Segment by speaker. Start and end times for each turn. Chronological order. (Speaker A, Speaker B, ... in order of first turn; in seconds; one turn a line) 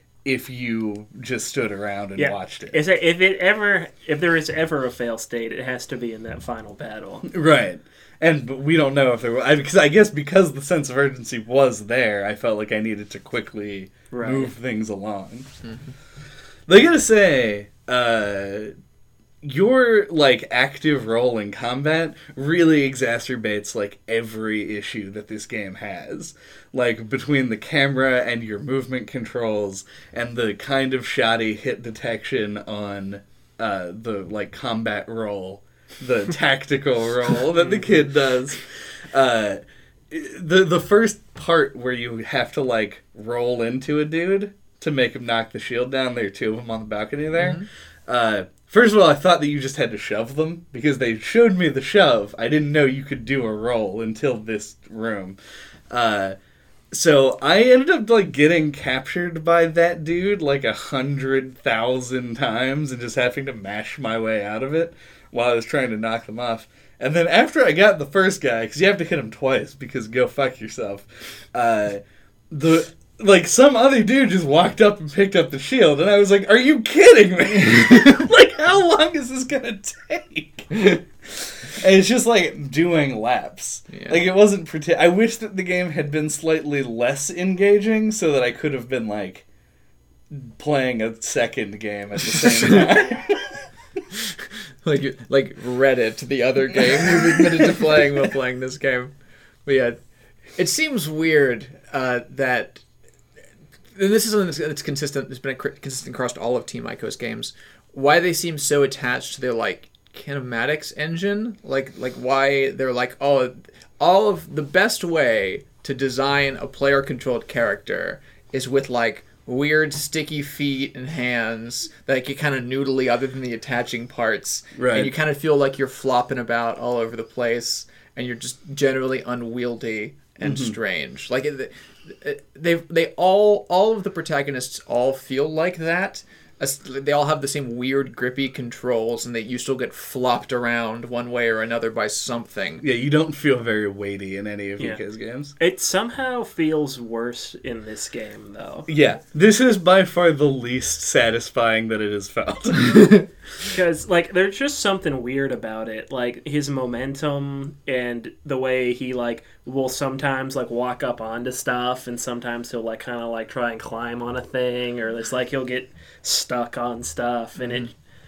Speaker A: 0.2-2.8
Speaker B: 2.2-7.2
Speaker A: 7.3-15.5
Speaker B: 14.1-14.5
Speaker A: 16.7-18.7
Speaker A: 19.4-55.4
Speaker C: 47.3-47.6
Speaker A: 55.9-56.3
Speaker A: 56.9-89.4
Speaker C: 83.9-84.2
Speaker A: 90.3-93.7
Speaker C: 92.6-92.8
Speaker C: 94.8-99.1
Speaker A: 97.2-97.9
Speaker C: 99.6-100.0
Speaker C: 100.5-102.8
Speaker C: 103.9-142.8
Speaker A: 124.8-125.1
Speaker A: 130.4-130.7
Speaker A: 142.8-145.5
Speaker B: 145.6-148.9
Speaker A: 148.9-153.3
Speaker B: 153.6-167.9